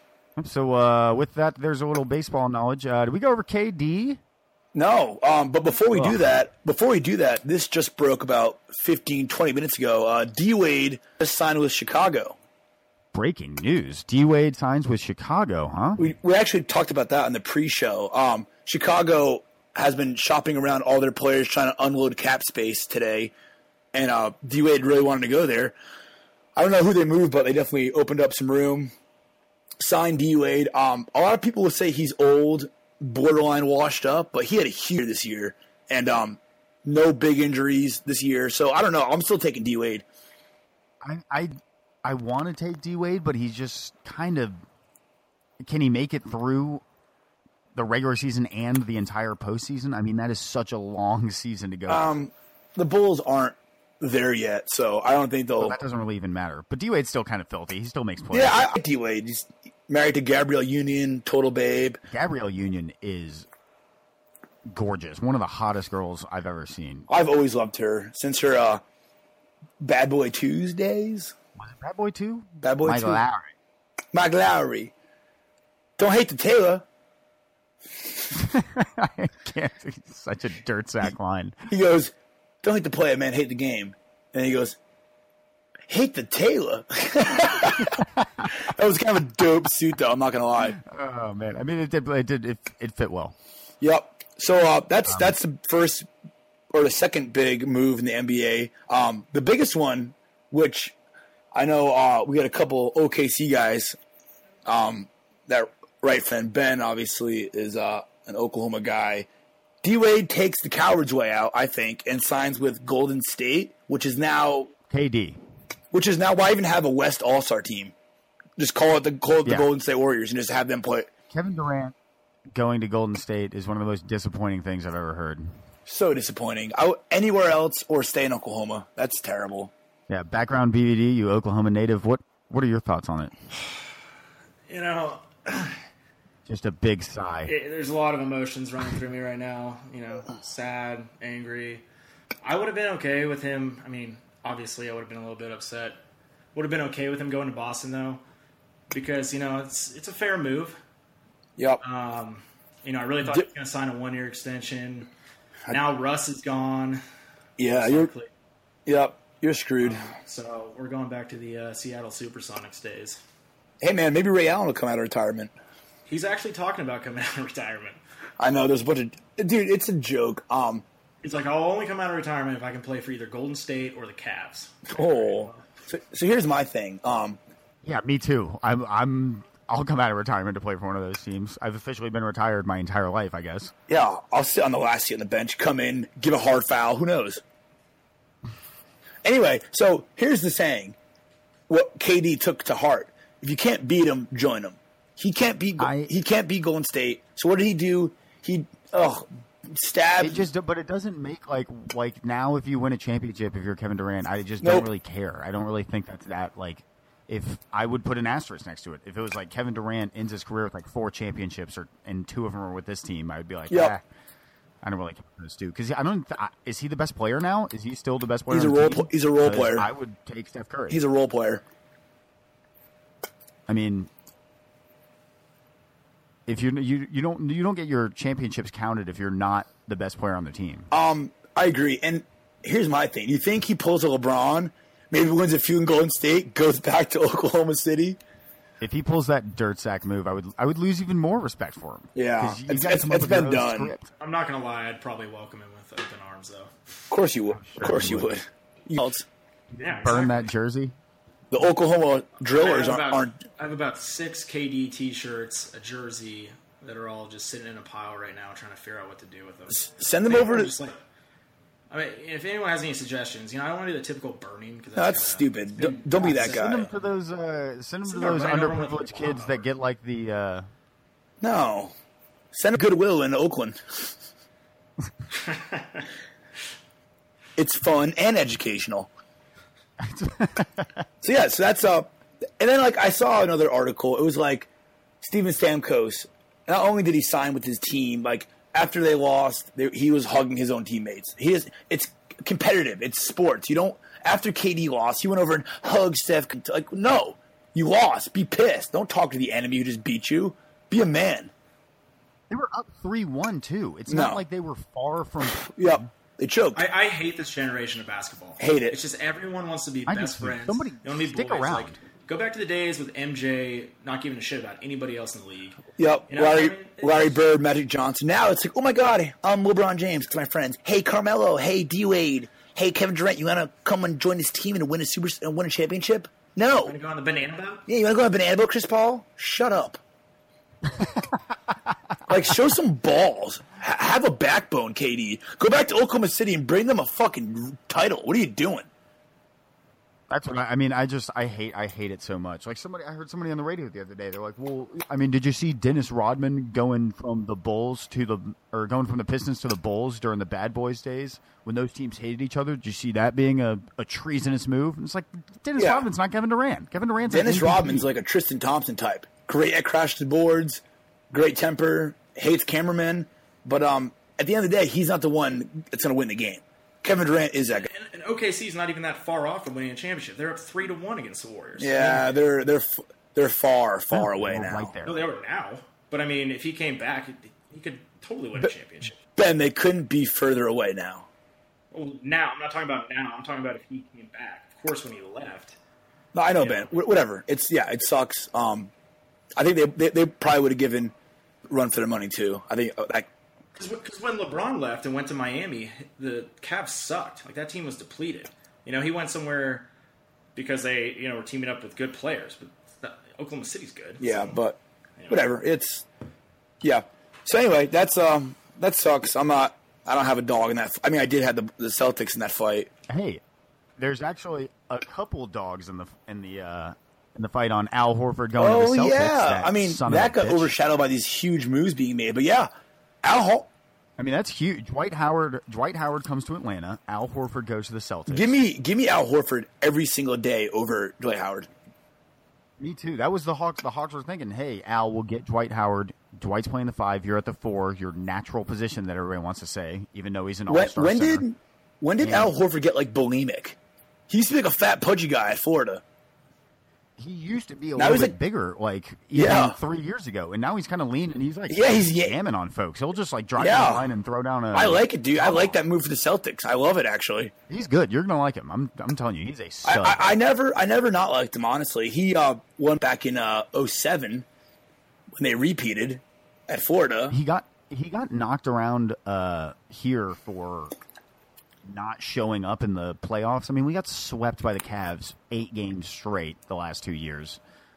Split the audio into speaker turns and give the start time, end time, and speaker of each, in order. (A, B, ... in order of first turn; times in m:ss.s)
0:00.4-0:04.2 A
0:04.8-0:12.4 B
0:13.1-0:16.1 A
0:16.0-0:23.3 B
0:23.9-0:25.8 B
0:26.6-0:28.9 B
0:29.8-0:40.0 B
0:41.0-0:44.6 A
0:45.6-0:46.8 A
0:47.8-0:52.1 A
0:51.9-0:55.8 B
0:55.6-0:58.6 A
0:58.3-1:02.0 B
1:02.1-1:03.5 A
1:04.7-1:07.1 A
1:07.1-1:08.8 B
1:09.8-1:11.3 B
1:11.6-1:13.5 A
1:12.6-1:13.2 B
1:14.1-1:14.9 B
1:16.0-1:16.8 B
1:18.3-1:21.7 A
1:21.7-1:24.8 B
1:25.9-1:30.8 B
1:27.8-1:28.5 A
1:30.6-1:33.4 A
1:33.8-1:36.1 B
1:36.7-1:41.0 B
1:41.5-1:44.0 B
1:44.6-1:49.3 B
1:49.8-1:54.7 B
1:54.9-1:55.4 A
1:55.9-1:57.9 B
1:58.6-2:01.1 B
2:01.3-2:02.0 A
2:02.5-2:05.5 A
2:05.9-2:09.7 B
2:10.1-2:13.3 A
2:14.7-2:15.8 C
2:16.5-2:17.5 A
2:17.5-2:21.8 C
2:22.4-2:26.0 C
2:26.5-2:28.2 C
2:28.9-2:30.8 C
2:31.6-2:31.8 B
2:31.8-2:35.1 C
2:35.7-2:37.0 C
2:37.6-2:38.1 B
2:37.7-2:38.3 C
2:38.9-2:40.1 B
2:39.8-2:43.2 C
2:43.8-2:45.5 B
2:46.1-2:48.0 C
2:48.4-2:50.8 B
2:51.2-2:55.6 C
2:54.9-2:57.4 B
2:57.8-3:03.7 A
3:03.9-3:07.4 B
3:09.2-3:11.0 B
3:11.7-3:20.5 B
3:15.8-3:16.1 A
3:20.2-3:34.0 A
3:24.6-3:24.9 B
3:33.7-3:34.0 B
3:34.8-3:41.0 A
3:38.5-3:39.9 B
3:40.9-3:41.6 B
3:43.7-3:44.1 A
3:46.5-3:50.9 A
3:50.9-3:58.2 B
3:58.8-4:04.1 A
4:02.2-4:03.9 B
4:04.2-4:06.7 C
4:07.1-4:09.3 B
4:07.6-4:08.3 A
4:09.7-4:10.9 A
4:09.8-4:10.5 C
4:11.5-4:13.4 B
4:12.5-4:21.0 C
4:19.7-4:20.7 B
4:21.9-4:26.9 C
4:25.0-4:26.8 B
4:26.3-4:30.7 A
4:28.1-4:29.6 C
4:31.4-4:31.9 B
4:32.5-4:34.1 B
4:35.4-4:36.0 C
4:37.6-4:39.1 B
4:40.0-4:41.0 A
4:41.2-4:44.7 B
4:45.2-5:01.5 B
5:02.5-5:06.1 A
5:04.1-5:04.4 B
5:05.7-5:06.8 B
5:06.8-5:15.8 C
5:08.6-5:09.0 B
5:10.1-5:12.0 A
5:16.0-5:27.0 B
5:16.3-5:17.4 C
5:26.8-5:27.8 C
5:27.9-5:30.0 B
5:32.3-5:38.9 B
5:40.3-5:58.1 A
5:55.8-5:56.1 B
5:57.3-6:07.9 B
6:07.8-6:12.4 C
6:11.8-6:14.9 B
6:14.1-6:15.2 A
6:15.0-6:19.2 C
6:19.4-6:21.3 B
6:21.9-6:25.8 C
6:26.3-6:28.9 B
6:26.6-6:26.9 C
6:29.6-6:31.1 B
6:31.7-6:33.3 B
6:33.8-6:39.9 C
6:40.6-6:44.5 C
6:44.2-6:46.1 B
6:46.8-6:52.9 B
6:53.1-6:53.4 A
6:54.0-7:00.7 A
6:58.6-7:02.7 B
7:03.2-7:03.7 B
7:04.2-7:08.6 A
7:08.3-7:11.7 B
7:12.8-7:21.4 A
7:20.7-7:23.8 B
7:22.2-7:22.5 A
7:24.3-7:26.0 B
7:27.2-7:35.7 A
7:28.0-7:28.4 B
7:29.3-7:29.8 B
7:31.7-7:32.4 B
7:33.6-7:34.1 B
7:34.7-7:37.5 B
7:37.7-7:40.2 A
7:39.8-7:44.5 B
7:45.4-7:47.4 B
7:47.3-7:50.9 A
7:51.9-7:57.6 A